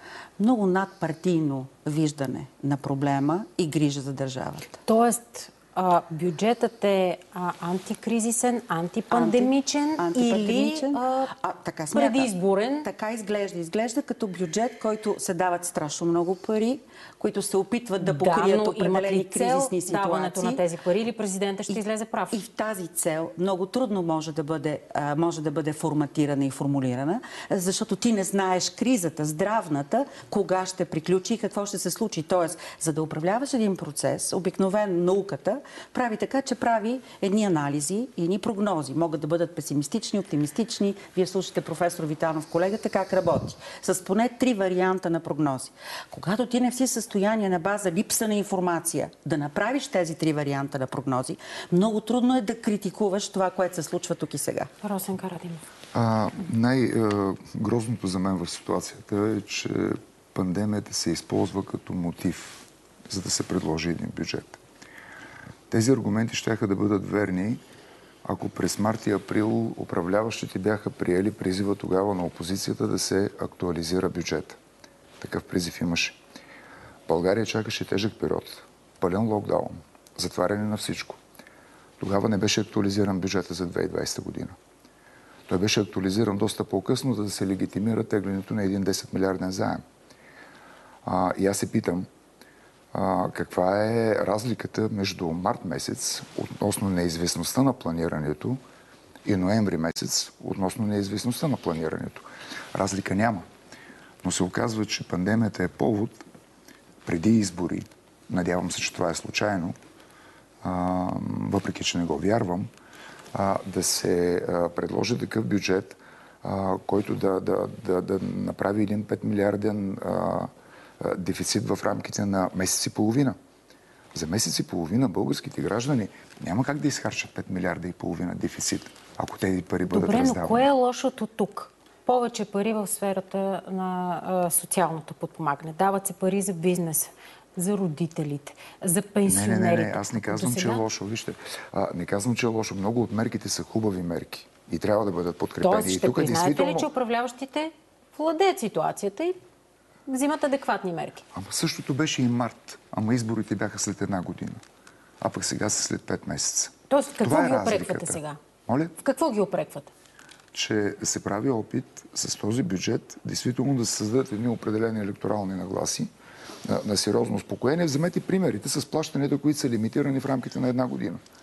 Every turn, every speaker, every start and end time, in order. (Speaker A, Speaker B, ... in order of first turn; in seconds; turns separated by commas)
Speaker A: 0.4-4.8, Speaker B: 4.8-11.3, Speaker A: 9.1-12.3, Speaker B: 11.9-12.9, Speaker A: 12.8-20.6, Speaker B: 18.0-22.4, Speaker A: 22.3-54.7, Speaker B: 54.8-55.6, Speaker C: 55.9-64.6, Speaker C: 65.7-67.6, Speaker C: 68.2-74.6, Speaker C: 75.2-76.2, Speaker C: 77.1-81.2, Speaker C: 82.0-84.5, Speaker C: 85.5-89.8, Speaker C: 91.0-92.1, Speaker C: 92.9-98.6, Speaker C: 99.2-103.5, Speaker C: 104.2-106.2, Speaker C: 107.0-109.8, Speaker C: 110.6-112.7, Speaker C: 113.3-123.3, Speaker C: 124.1-130.7, Speaker B: 129.9-140.8, Speaker C: 139.3-146.9, Speaker B: 145.6-149.4, Speaker B: 150.1-151.2, Speaker C: 151.3-154.6, Speaker C: 155.2-158.9, Speaker B: 156.9-158.4, Speaker B: 159.0-159.9, Speaker C: 160.5-166.1, Speaker C: 166.6-171.2